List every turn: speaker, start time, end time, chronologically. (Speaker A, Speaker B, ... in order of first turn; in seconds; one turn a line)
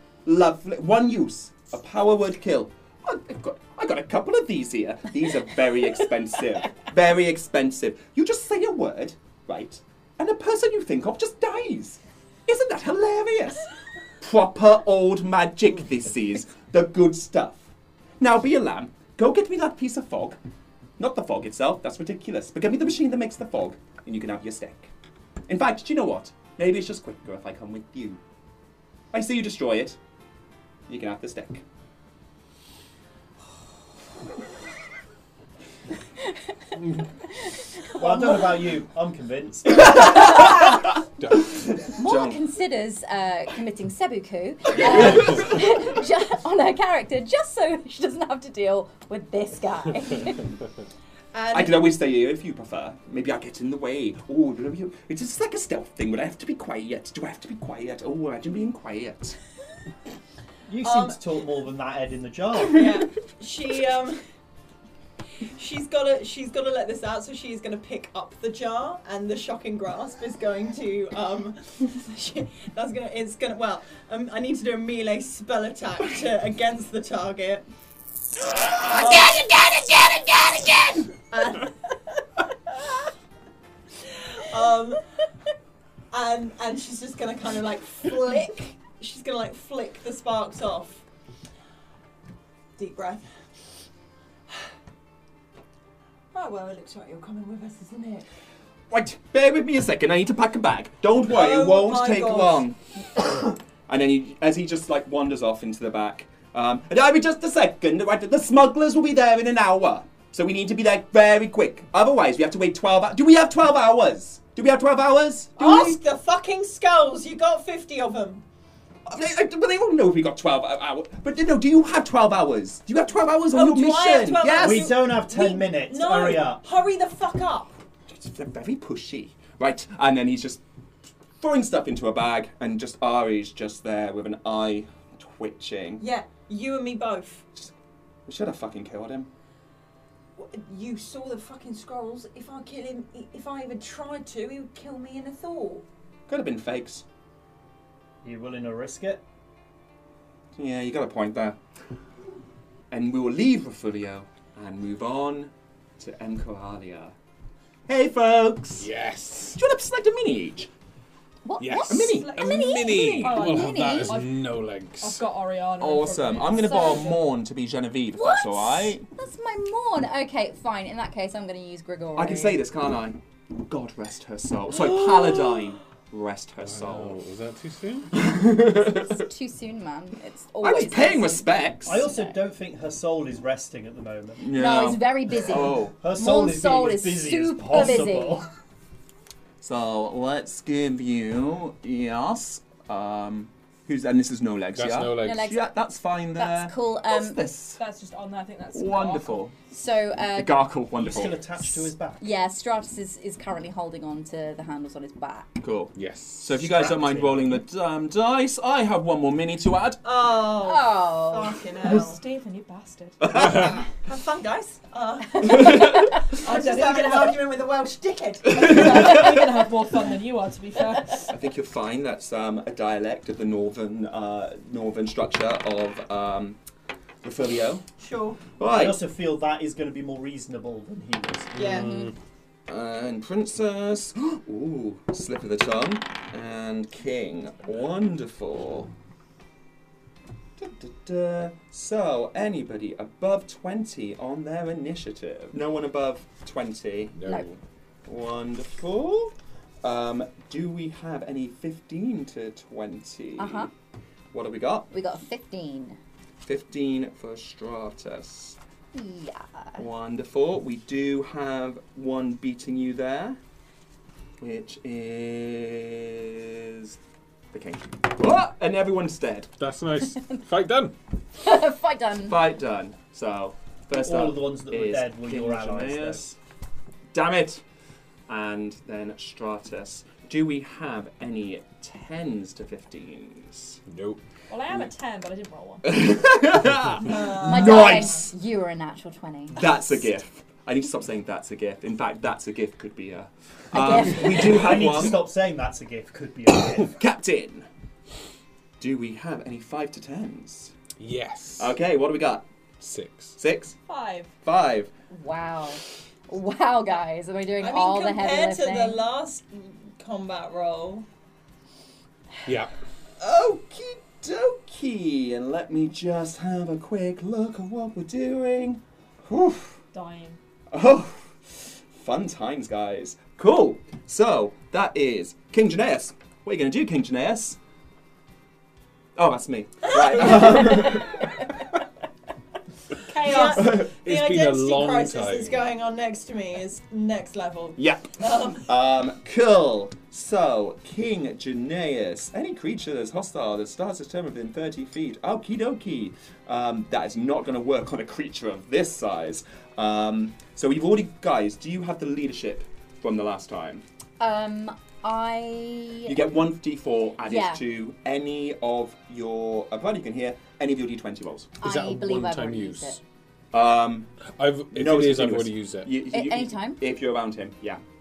Speaker A: 0.3-13.7
Speaker A: 14.2-17.7
Speaker A: 18.2-20.4
Speaker A: 21.0-24.9
Speaker A: 25.5-28.2
Speaker A: 29.1-30.0
Speaker A: 30.9-31.6
Speaker B: 38.0-40.0
Speaker A: 39.8-40.8
Speaker C: 40.1-40.6
Speaker D: 41.2-41.5
Speaker A: 41.9-42.4
Speaker C: 42.0-50.5
Speaker A: 44.8-45.5
Speaker E: 51.3-51.9
Speaker A: 51.5-59.4
Speaker B: 60.7-62.9
Speaker E: 60.8-61.2
Speaker E: 62.7-64.2
Speaker E: 65.5-77.7
Speaker E: 78.8-79.5
Speaker A: 79.1-80.9
Speaker E: 81.3-81.7
Speaker E: 84.1-85.0
Speaker E: 86.1-91.0
Speaker E: 92.8-93.3
Speaker E: 96.3-98.3
Speaker A: 98.9-116.0
Speaker E: 101.3-102.6
Speaker E: 115.6-118.4
Speaker A: 119.1-125.0
Speaker E: 123.5-127.8
Speaker B: 124.6-126.6
Speaker A: 128.1-130.6
Speaker A: 131.4-136.0
Speaker E: 136.0-137.5
Speaker A: 138.3-139.3
Speaker E: 140.4-145.8
Speaker A: 146.3-147.0
Speaker B: 148.2-149.2
Speaker A: 150.6-151.6
Speaker A: 152.9-157.1
Speaker A: 157.9-158.9
Speaker D: 158.8-159.6
Speaker A: 159.6-160.7
Speaker C: 161.4-164.2
Speaker D: 161.6-165.2
Speaker A: 161.9-162.3
Speaker F: 162.2-162.6
Speaker F: 163.2-167.3
Speaker A: 165.8-169.1
Speaker C: 166.7-167.1
Speaker C: 168.1-172.6
Speaker A: 172.2-177.2
Speaker D: 176.6-178.2
Speaker A: 178.1-179.2
Speaker C: 179.1-182.4
Speaker A: 180.6-182.0
Speaker B: 181.9-184.5
Speaker A: 184.4-186.0
Speaker C: 184.5-188.4
Speaker B: 186.0-188.5
Speaker A: 189.6-197.8
Speaker D: 194.8-195.4
Speaker C: 195.2-195.6
Speaker C: 196.4-197.4
Speaker F: 197.8-199.4
Speaker A: 198.7-199.6
Speaker C: 199.7-200.7
Speaker A: 200.4-201.4
Speaker B: 201.0-202.3
Speaker C: 202.2-205.6
Speaker A: 205.6-210.0
Speaker D: 205.9-206.9
Speaker B: 206.8-207.5
Speaker E: 210.0-212.2
Speaker C: 210.6-211.6
Speaker F: 211.8-213.4
Speaker A: 213.3-213.6
Speaker E: 213.3-218.9
Speaker F: 216.4-217.4
Speaker F: 218.5-221.3
Speaker A: 218.5-219.4
Speaker A: 221.3-226.6
Speaker A: 227.2-227.9
Speaker E: 228.0-228.4
Speaker A: 228.6-229.0
Speaker B: 228.7-231.9
Speaker E: 231.6-231.9
Speaker D: 231.7-232.1
Speaker A: 232.7-238.9
Speaker A: 240.6-253.7
Speaker D: 247.2-247.4
Speaker C: 253.4-253.7
Speaker A: 254.3-254.9
Speaker C: 254.9-256.0
Speaker A: 256.4-258.6
Speaker C: 258.9-259.8
Speaker A: 259.8-263.4
Speaker A: 264.4-267.0
Speaker A: 267.5-269.5
Speaker D: 269.6-270.9
Speaker C: 271.4-272.4
Speaker A: 272.3-276.4
Speaker B: 273.9-276.3
Speaker A: 277.1-277.6
Speaker A: 278.3-283.8
Speaker D: 283.9-284.2
Speaker F: 284.5-286.0
Speaker A: 285.8-288.2
Speaker E: 287.0-288.3
Speaker C: 287.3-289.7
Speaker A: 289.6-295.2
Speaker C: 293.7-294.9
Speaker B: 294.3-297.0
Speaker A: 296.9-297.7
Speaker A: 298.8-300.7
Speaker D: 301.0-301.7
Speaker A: 301.6-302.5
Speaker D: 302.8-303.4
Speaker A: 303.4-303.8
Speaker F: 303.9-304.3
Speaker A: 304.4-304.9
Speaker C: 305.1-309.0
Speaker E: 307.6-311.1
Speaker D: 312.4-312.7
Speaker A: 313.2-319.8
Speaker F: 319.9-320.4
Speaker A: 320.7-327.6
Speaker A: 329.2-331.4
Speaker F: 333.0-333.8
Speaker E: 333.2-338.7
Speaker A: 333.6-333.8
Speaker D: 333.9-335.6
Speaker A: 337.8-353.8
Speaker C: 354.2-356.2
Speaker A: 356.1-361.5
Speaker C: 357.2-357.6
Speaker C: 361.6-363.0
Speaker D: 361.6-363.0
Speaker A: 363.5-364.1
Speaker D: 364.4-366.0
Speaker A: 364.7-367.8
Speaker C: 366.1-366.8